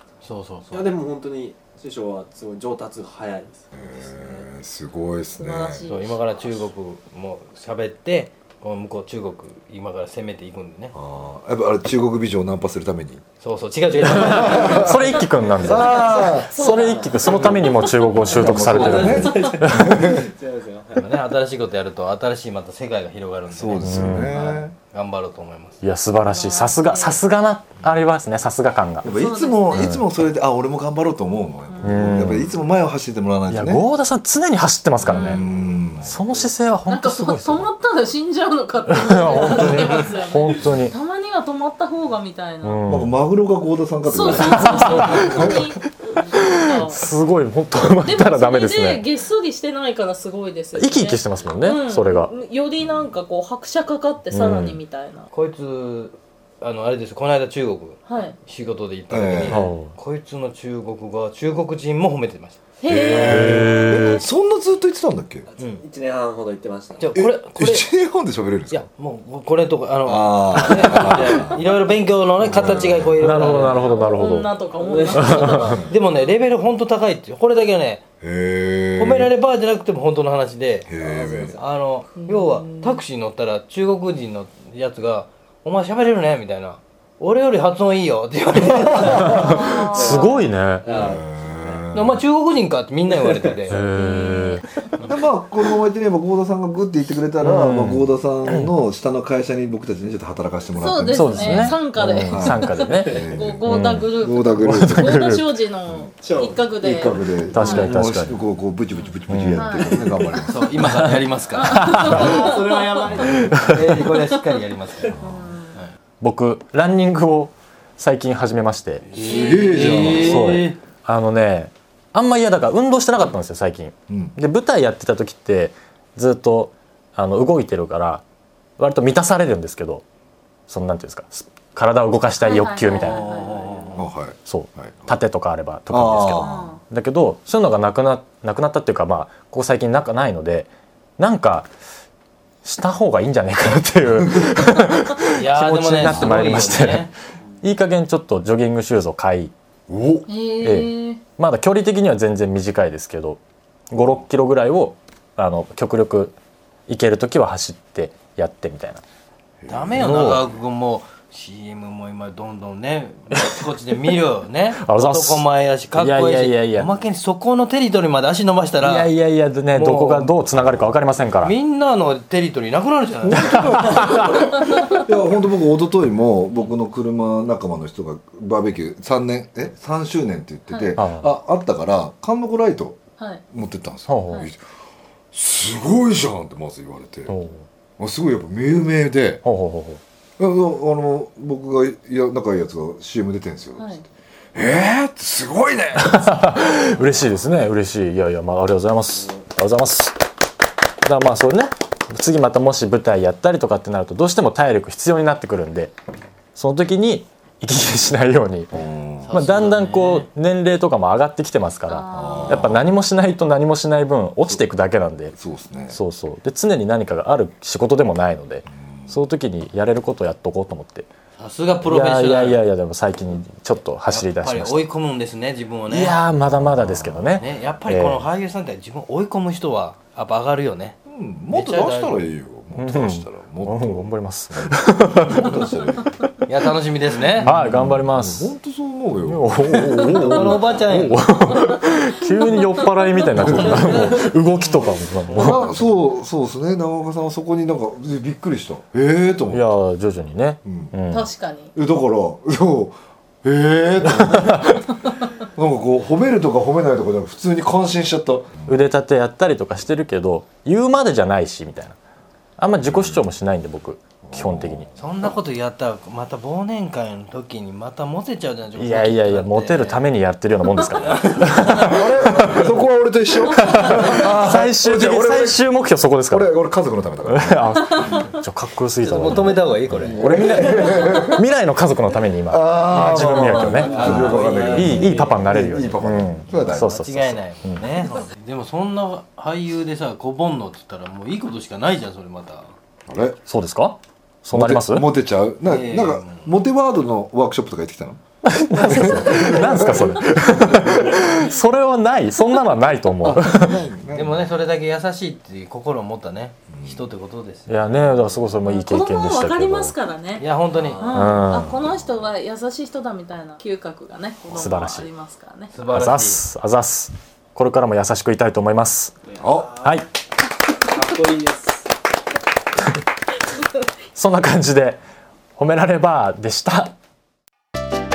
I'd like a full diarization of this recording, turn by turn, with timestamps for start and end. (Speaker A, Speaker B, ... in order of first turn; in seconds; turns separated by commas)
Speaker A: 0.2-0.9, Speaker B: 0.7-4.5, Speaker C: 3.7-5.9, Speaker D: 5.3-6.2, Speaker A: 5.9-10.9, Speaker C: 10.9-13.2, Speaker A: 13.4-15.3, Speaker E: 14.1-20.2, Speaker C: 14.1-16.6, Speaker D: 15.7-17.3, Speaker B: 16.6-21.2, Speaker C: 18.1-20.3, Speaker A: 18.5-19.3, Speaker A: 20.9-25.8, Speaker C: 23.5-24.7, Speaker E: 23.8-24.4, Speaker E: 25.8-29.1, Speaker D: 26.2-27.2, Speaker C: 29.0-33.9, Speaker D: 29.1-29.9, Speaker E: 29.7-30.1, Speaker E: 31.8-32.5, Speaker E: 33.5-35.4, Speaker C: 35.0-36.1, Speaker D: 35.0-35.5, Speaker B: 35.2-36.5, Speaker E: 36.0-37.7, Speaker D: 36.9-42.8, Speaker E: 38.9-41.0, Speaker E: 42.6-43.2, Speaker C: 42.9-45.7, Speaker D: 44.0-47.0, Speaker E: 44.2-45.8, Speaker E: 46.3-49.0, Speaker D: 48.0-55.3, Speaker E: 50.8-52.3, Speaker E: 54.3-54.8, Speaker A: 55.3-62.7, Speaker D: 58.1-58.4, Speaker C: 59.1-59.6, Speaker E: 59.5-60.0, Speaker D: 62.8-64.3, Speaker C: 62.9-65.5, Speaker E: 63.1-64.2, Speaker B: 65.5-67.2, Speaker A: 67.0-67.9, Speaker C: 67.1-68.9, Speaker A: 68.7-74.1, Speaker C: 70.0-71.6, Speaker E: 70.7-71.1, Speaker C: 72.4-73.3, Speaker E: 73.2-74.5, Speaker D: 73.4-75.8, Speaker B: 74.8-75.9, Speaker E: 75.2-75.7, Speaker A: 75.9-78.0, Speaker C: 78.2-79.3, Speaker A: 79.0-80.9, Speaker C: 80.9-81.6, Speaker B: 81.0-81.6, Speaker A: 81.6-89.6, Speaker D: 82.2-83.0, Speaker B: 88.7-91.9, Speaker E: 89.0-90.9, Speaker D: 89.3-90.4, Speaker A: 90.8-91.2, Speaker C: 90.9-92.2, Speaker A: 91.9-93.8, Speaker B: 93.1-93.6, Speaker E: 93.7-94.6, Speaker D: 93.9-94.9, Speaker C: 95.0-105.2, Speaker E: 97.4-98.7, Speaker D: 100.8-107.9, Speaker E: 101.1-105.5, Speaker B: 106.1-107.2, Speaker C: 106.8-110.7, Speaker E: 107.5-108.4, Speaker E: 109.3-109.9, Speaker D: 109.5-110.6, Speaker A: 110.4-112.5, Speaker E: 110.8-112.2, Speaker D: 111.5-113.2, Speaker B: 112.0-113.4, Speaker C: 113.0-113.6, Speaker E: 113.2-114.0, Speaker A: 113.6-115.2, Speaker C: 115.1-115.6, Speaker D: 115.2-115.8, Speaker E: 116.2-119.1, Speaker A: 119.1-120.8, Speaker C: 119.2-120.6, Speaker D: 119.2-120.1, Speaker E: 120.1-128.2, Speaker C: 124.1-124.4, Speaker E: 128.8-130.0, Speaker E: 130.7-133.4, Speaker D: 132.4-134.0, Speaker A: 132.9-134.1, Speaker C: 133.9-135.2, Speaker E: 134.4-141.7, Speaker C: 135.9-136.7, Speaker D: 136.3-136.8, Speaker E: 142.6-149.5, Speaker A: 145.3-147.1, Speaker C: 146.1-146.8, Speaker C: 149.9-150.3, Speaker D: 150.3-151.2, Speaker E: 150.6-153.4, Speaker E: 153.9-156.3, Speaker E: 156.9-159.0, Speaker C: 159.6-160.3, Speaker A: 159.7-169.1, Speaker E: 160.0-160.4, Speaker E: 164.8-166.9, Speaker E: 168.8-171.6, Speaker A: 169.7-170.3, Speaker A: 171.4-174.0, Speaker C: 173.2-183.0, Speaker E: 173.4-174.5, Speaker D: 174.7-175.0, Speaker D: 180.7-181.0, Speaker E: 181.0-181.3, Speaker C: 183.5-184.6, Speaker E: 184.1-184.5, Speaker C: 185.3-187.3, Speaker E: 187.3-187.7, Speaker C: 188.0-189.4, Speaker E: 189.4-190.0, Speaker C: 190.4-194.0, Speaker D: 193.8-194.1, Speaker C: 194.6-197.3, Speaker E: 196.0-200.2, Speaker E: 201.0-205.9, Speaker E: 206.6-208.7, Speaker C: 208.7-209.3, Speaker A: 209.2-210.3, Speaker E: 209.3-215.3, Speaker D: 211.9-212.7, Speaker C: 212.1-212.9, Speaker C: 215.3-216.0, Speaker E: 215.9-221.1, Speaker C: 218.8-219.2, Speaker A: 221.4-222.6, Speaker E: 221.8-224.9, Speaker A: 224.1-226.2, Speaker E: 225.9-228.2, Speaker C: 226.6-227.3, Speaker A: 227.3-231.0, Speaker C: 231.1-236.2, Speaker A: 231.5-232.3, Speaker E: 232.8-235.5, Speaker A: 236.5-237.5, Speaker C: 237.3-240.7, Speaker E: 237.4-238.6, Speaker E: 239.2-245.7, Speaker A: 240.1-241.3, Speaker D: 243.4-244.2, Speaker C: 243.4-243.9, Speaker A: 243.5-245.9, Speaker C: 245.3-249.7, Speaker E: 249.5-251.3, Speaker C: 250.7-250.9, Speaker D: 251.1-251.7, Speaker C: 251.8-254.9, Speaker E: 254.1-254.8, Speaker C: 255.6-258.8, Speaker E: 258.7-262.0, Speaker E: 262.6-264.9, Speaker C: 262.9-263.2, Speaker C: 264.2-265.3, Speaker A: 265.0-270.1, Speaker E: 268.8-272.7, Speaker A: 271.0-272.5, Speaker C: 271.7-275.7, Speaker E: 273.5-276.5, Speaker C: 276.3-277.8, Speaker E: 277.3-279.6, Speaker A: 279.0-280.2, Speaker C: 279.9-281.4, Speaker E: 280.1-283.9, Speaker C: 282.5-286.9, Speaker A: 282.8-285.6, Speaker B: 283.8-284.7, Speaker E: 284.7-287.8, Speaker A: 286.5-292.7, Speaker C: 293.1-293.4, Speaker E: 293.5-295.1, Speaker C: 294.5-298.2, Speaker A: 295.6-296.5, Speaker E: 298.4-303.8, Speaker C: 298.8-301.4, Speaker C: 303.2-304.5, Speaker A: 304.1-308.2, Speaker C: 306.7-307.0, Speaker E: 307.7-309.9, Speaker D: 308.6-315.7, Speaker A: 310.4-311.3, Speaker E: 311.1-311.8, Speaker E: 314.5-315.1, Speaker A: 315.7-316.4, Speaker E: 315.9-319.2, Speaker B: 319.4-319.9, Speaker C: 319.4-319.8, Speaker E: 319.8-320.1, Speaker B: 320.9-321.9, Speaker E: 324.1-325.0, Speaker E: 325.6-326.9